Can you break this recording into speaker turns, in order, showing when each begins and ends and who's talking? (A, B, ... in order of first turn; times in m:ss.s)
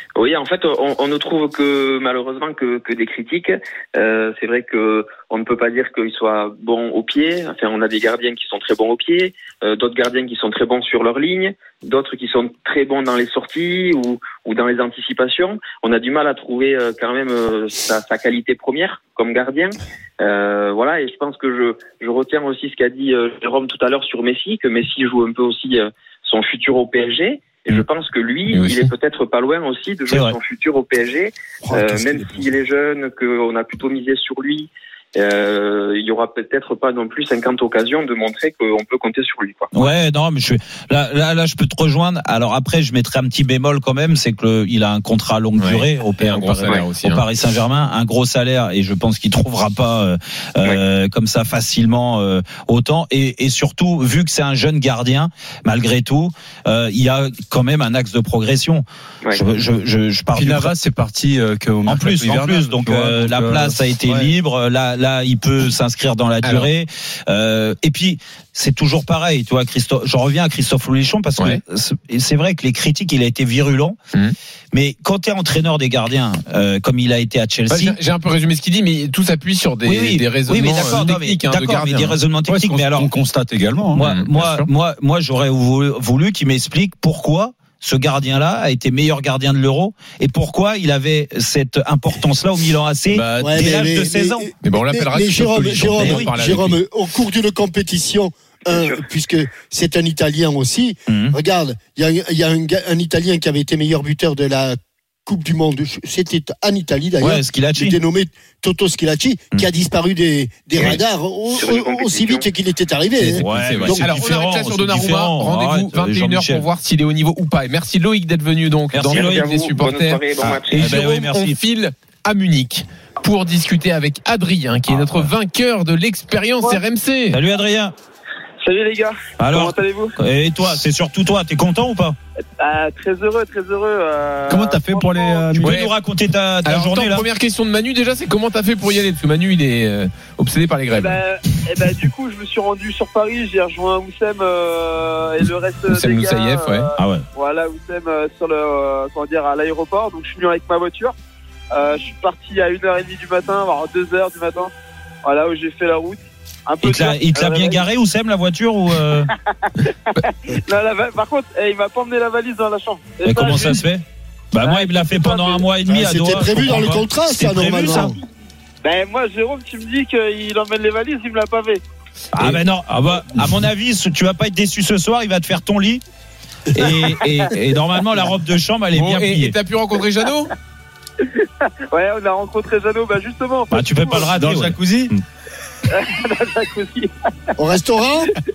0:00.2-0:39.7 A
0:28.5-0:28.9 B
0:30.1-0:30.4 C
0:31.7-0:32.0 D
0:31.7-0:32.4 E
0:39.7-1:00.7 C
0:45.6-0:47.2 B
1:00.3-1:04.3 D
1:01.9-1:14.0 C
1:06.4-1:06.7 B
1:14.7-1:18.0 C
1:17.7-1:22.2 B
1:19.8-1:23.1 C
1:22.5-1:24.0 D
1:23.9-1:34.4 C
1:24.0-1:24.6 B
1:33.1-1:33.6 B
1:33.4-1:54.1 E
1:34.6-1:36.8 B
1:36.0-1:36.3 C
1:41.1-1:41.4 C
1:47.2-1:48.0 C
1:51.6-1:52.5 A
1:53.2-2:07.4 B
1:53.2-1:56.6 C
1:58.9-1:59.6 C
1:59.1-2:00.9 A
2:00.4-2:01.6 C
2:04.9-2:05.3 C
2:07.3-2:07.9 C
2:08.6-2:10.1 F
2:09.4-2:12.2 C
2:12.6-2:15.5 F
2:14.5-2:15.8 D
2:15.6-2:17.2 C
2:15.6-2:15.9 B
2:16.6-2:21.2 B
2:20.9-2:31.1 F
2:25.9-2:26.9 B
2:27.0-2:27.2 C
2:31.7-2:34.7 F
2:35.2-2:37.8 F
2:36.8-2:39.3 C
2:40.1-2:43.8 F
2:43.2-2:48.1 C
2:44.5-2:45.7 F
2:45.9-2:48.1 E
2:48.8-2:51.8 F
2:52.3-2:56.0 C
2:56.7-2:59.6 C
2:56.8-2:57.5 F
2:58.9-3:00.5 B
3:01.2-3:04.3 F
3:03.7-3:05.2 C
3:04.3-3:05.1 D
3:05.9-3:07.1 F
3:07.6-3:08.3 E